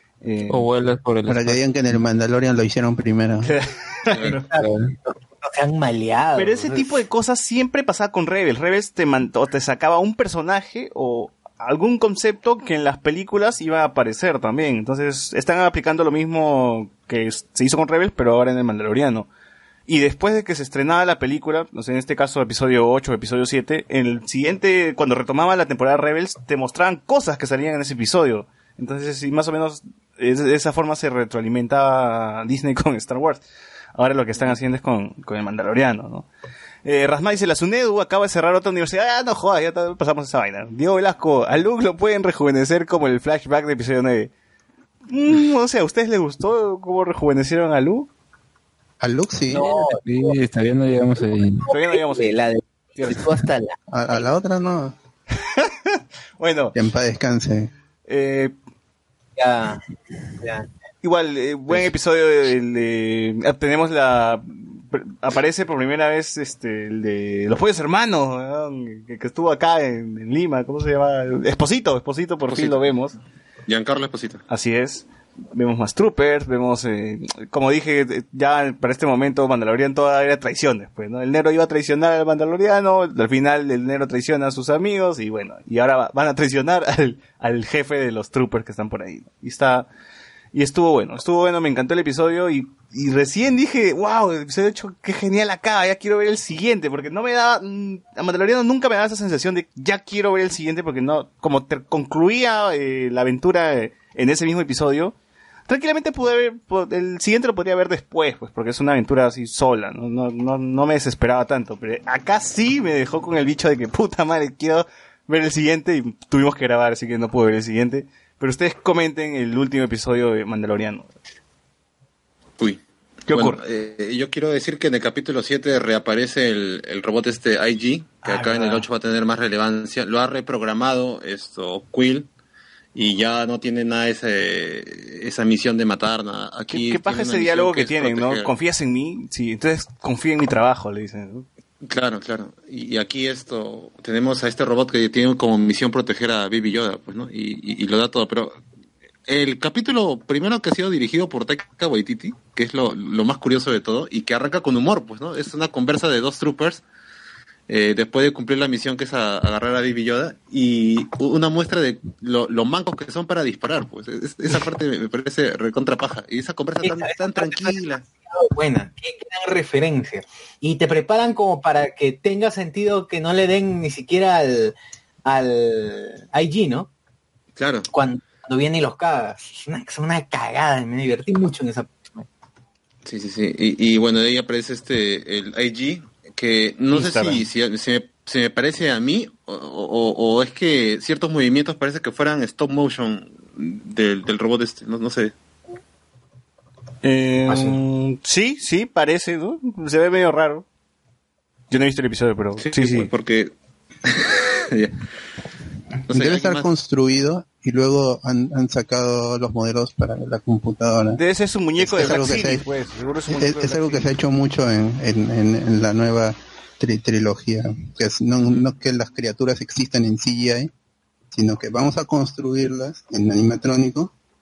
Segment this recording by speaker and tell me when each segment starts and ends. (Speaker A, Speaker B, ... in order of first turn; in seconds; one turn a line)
Speaker A: 0.2-0.7
Speaker B: 0.5-1.6
Speaker C: 1.3-3.5
Speaker A: 3.4-4.5
Speaker D: 4.1-4.4
Speaker E: 4.5-6.9
Speaker B: 4.5-4.9
Speaker A: 6.4-19.3
Speaker A: 19.9-33.4
Speaker A: 34.0-36.3
Speaker A: 36.9-44.3
Speaker A: 45.1-48.1
Speaker C: 49.0-49.7
Speaker E: 49.5-50.4
Speaker B: 49.6-51.7
Speaker E: 51.2-53.8
Speaker A: 51.7-52.3
Speaker C: 53.9-55.0
Speaker A: 55.3-56.8
Speaker C: 56.7-57.7
Speaker A: 58.1-58.5
Speaker E: 59.4-59.8
Speaker E: 60.4-60.7
Speaker A: 61.0-73.2
Speaker D: 72.5-72.8
Speaker D: 73.7-74.4
Speaker A: 74.5-89.9
Speaker A: 90.5-105.2
Speaker A: 105.7-121.1
Speaker D: 122.6-132.3
Speaker A: 123.3-123.6
Speaker A: 128.2-128.9
Speaker D: 132.9-138.5
Speaker A: 136.7-141.5
Speaker D: 141.8-148.6
Speaker D: 149.3-156.8
Speaker D: 157.7-168.0
Speaker E: 166.8-176.9
Speaker D: 177.6-177.9
Speaker E: 177.9-182.3
Speaker D: 183.1-195.3
Speaker A: 186.9-187.4
Speaker A: 197.0-200.6
Speaker A: 201.7-203.1
Speaker D: 202.6-203.5
Speaker D: 204.1-205.0
Speaker D: 206.1-206.7
Speaker C: 206.1-211.2
Speaker A: 211.2-214.2
Speaker C: 211.8-212.7
Speaker C: 213.3-220.7
Speaker C: 221.3-224.1